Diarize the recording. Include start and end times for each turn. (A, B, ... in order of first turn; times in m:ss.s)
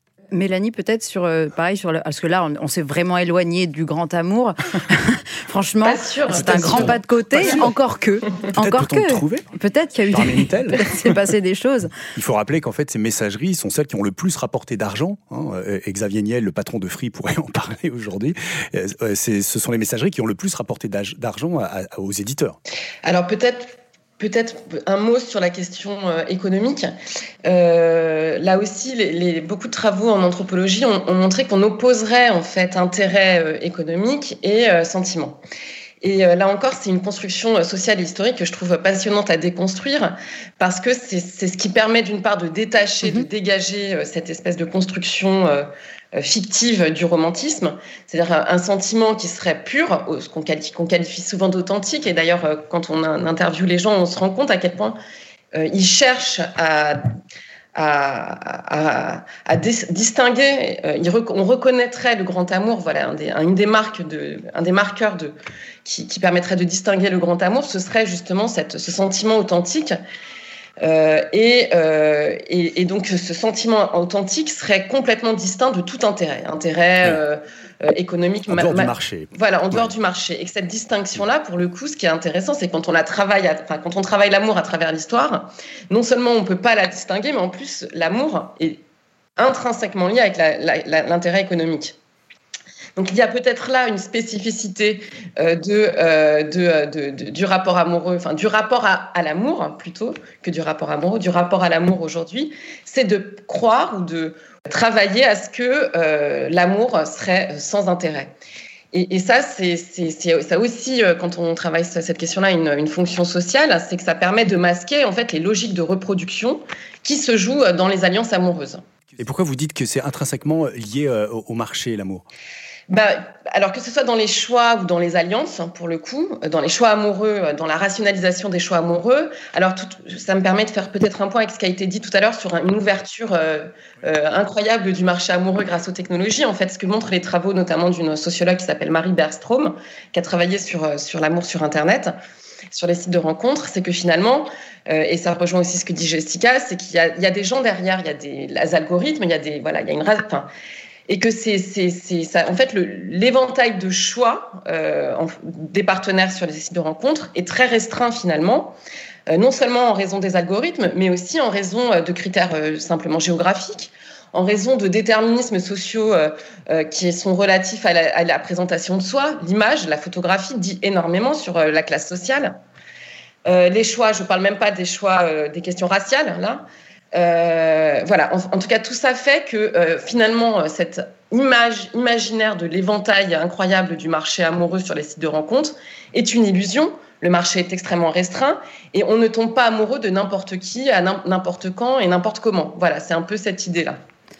0:00.3-0:11.9 A
0:05.8-0:07.0 B
0:06.3-0:07.7 C
0:08.5-0:09.4 C
0:10.1-0:10.9 C
0:12.1-0:22.6 C
0:23.0-0:26.9 B
0:27.4-0:35.4 B
0:36.0-0:55.0 B
0:55.5-0:57.0 B
0:57.7-1:10.0 B
1:10.8-1:28.8 B
1:18.5-1:19.9 C
1:29.4-1:32.0 B
1:33.0-1:48.3 B
1:48.9-1:58.8 B
1:59.2-2:02.2 C
2:02.9-2:22.1 B
2:22.7-2:30.5 B
2:31.1-2:38.7 B
2:39.3-2:52.6 B
2:53.4-3:14.0 B